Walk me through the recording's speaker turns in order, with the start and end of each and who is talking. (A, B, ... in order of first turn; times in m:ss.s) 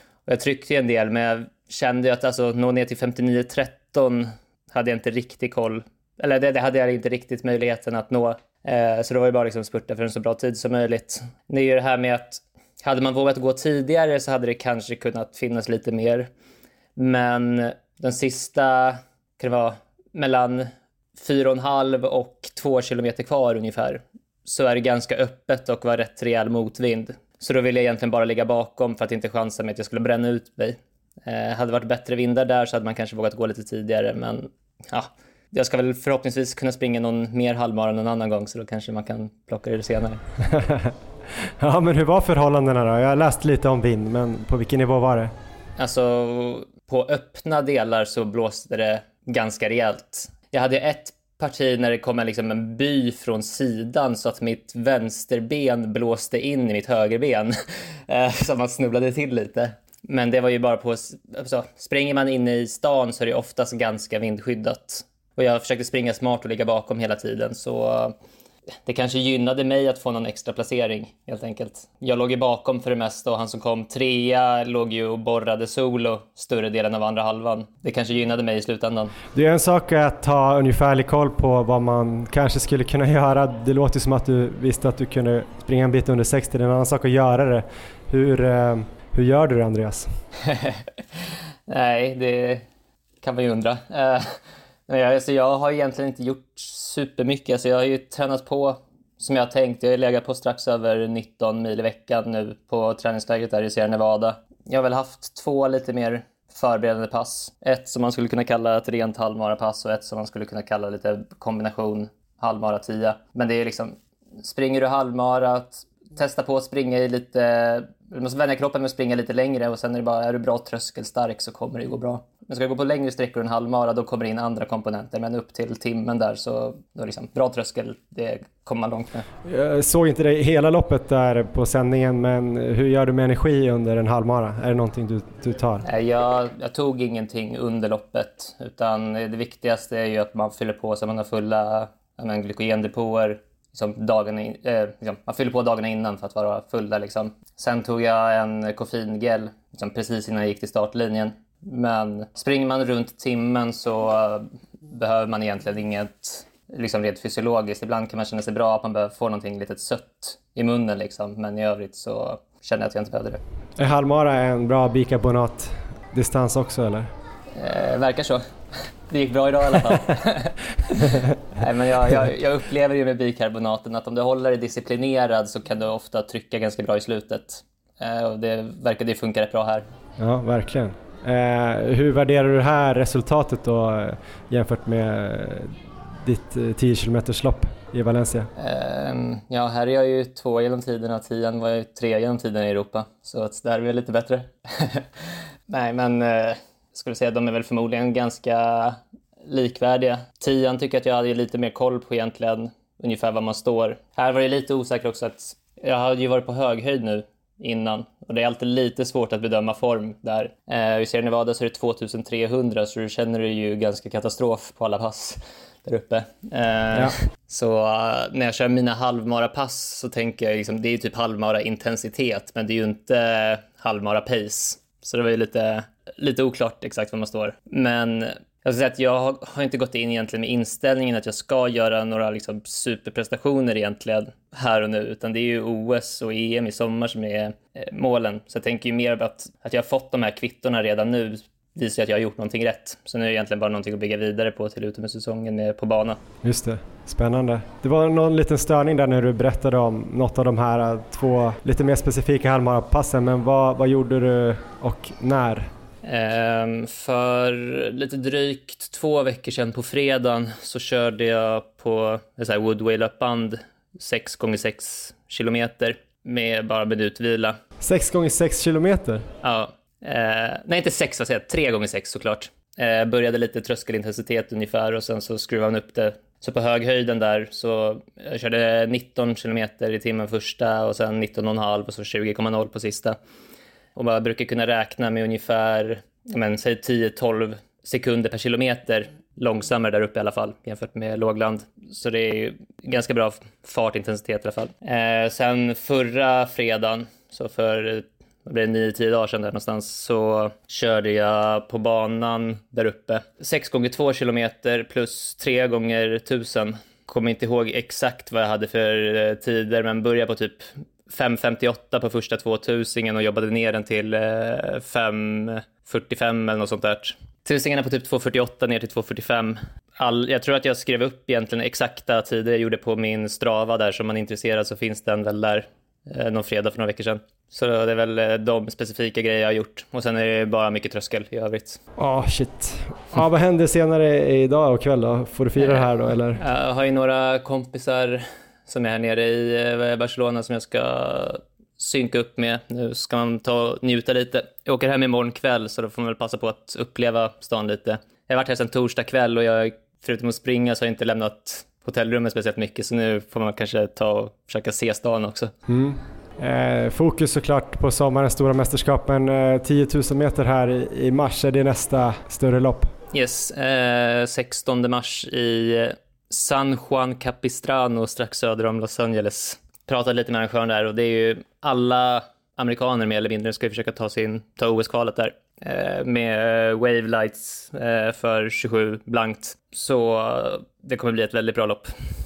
0:00.2-0:16.3 A
0:17.0-0:40.2 A
0:40.4-0:40.9 B
0:41.5-0:45.3 B
0:45.8-1:08.2 A
1:08.8-1:19.1 A
1:19.3-1:30.1 B
1:30.5-1:30.8 A
1:31.7-1:32.6 A
1:33.2-2:09.2 A
2:09.4-2:15.8 B
2:15.8-2:43.4 A
2:43.8-2:47.1 B
2:47.5-2:59.9 A
2:51.1-2:51.4 B
3:00.2-3:08.5 B
3:08.6-4:06.2 A
4:06.4-4:15.7 B
4:16.0-4:27.6 A
4:27.8-4:29.2 B
4:29.4-4:43.2 A
4:43.9-5:31.8 A
5:32.0-5:36.4 B
5:36.3-5:55.5 A
5:55.7-6:02.9 B
6:03.1-6:21.9 A